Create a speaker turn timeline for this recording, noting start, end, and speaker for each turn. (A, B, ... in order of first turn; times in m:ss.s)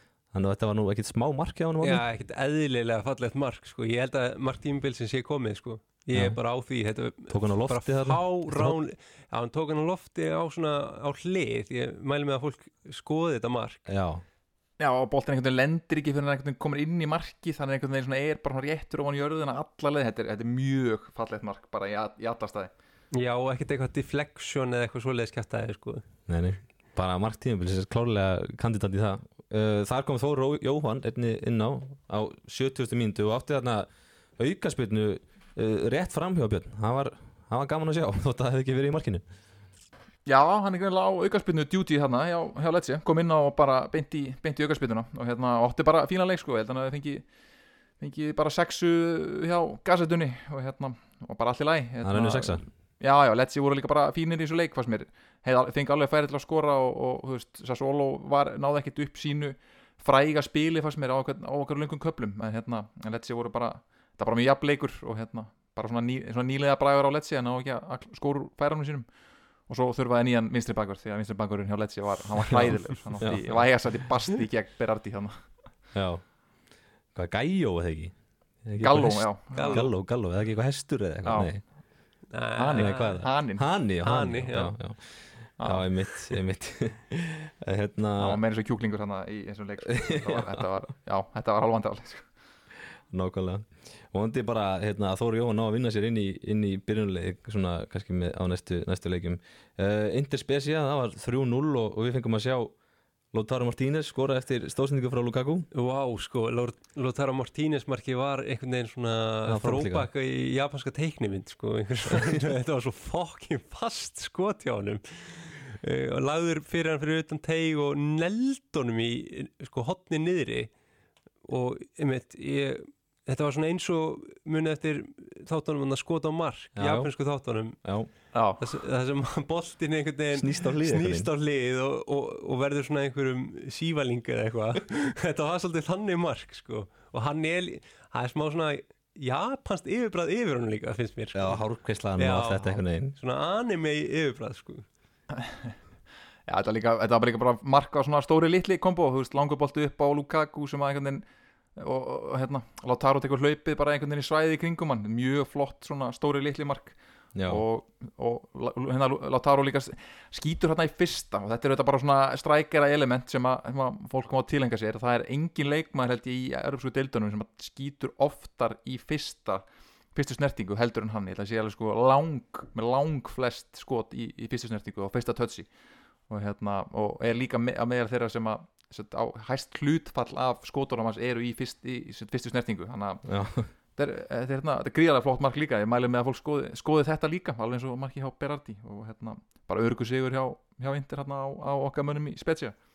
0:00.3-0:02.0 A
0:01.8-0:13.9 B
0:07.3-0:08.8 A
0:13.9-0:14.2 A
0:14.8-0:22.7 C
0:23.1-0:26.0 B
0:26.3-0:33.9 A
0:34.4-0:39.2 A
0:40.2-0:47.2 C
0:48.0-1:09.0 C
0:52.0-0:52.6 A
1:09.7-1:15.4 C
1:13.2-1:13.6 A
1:15.9-1:16.2 A
1:17.1-1:21.6 A
1:18.8-1:19.9 C
1:19.5-1:19.9 B
1:21.2-1:21.5 C
1:22.3-1:23.2 B
1:22.6-1:23.6 C
1:22.8-1:28.4 A
1:24.0-1:24.8 B
1:25.6-1:25.9 C
1:28.2-1:32.3 C
1:30.0-1:30.6 A
1:33.1-1:42.7 A
1:43.3-1:45.7 A
1:45.7-2:00.7 B
1:49.4-1:50.1 A
1:52.1-1:52.5 A
2:01.4-2:07.8 B
2:06.8-2:07.1 A
2:07.8-2:08.1 A
2:08.3-2:08.6 C
2:08.6-2:21.6 B
2:10.3-2:11.3 A
2:21.3-2:23.2 A
2:22.2-2:24.8 B
2:25.3-2:25.7 C
2:26.5-2:31.2 C
2:31.8-2:37.0 C
2:37.3-2:37.6 A
2:37.5-2:49.6 C
2:50.1-2:55.7 C
2:56.3-3:03.2 C
3:03.2-3:03.7 A
3:04.0-3:12.7 C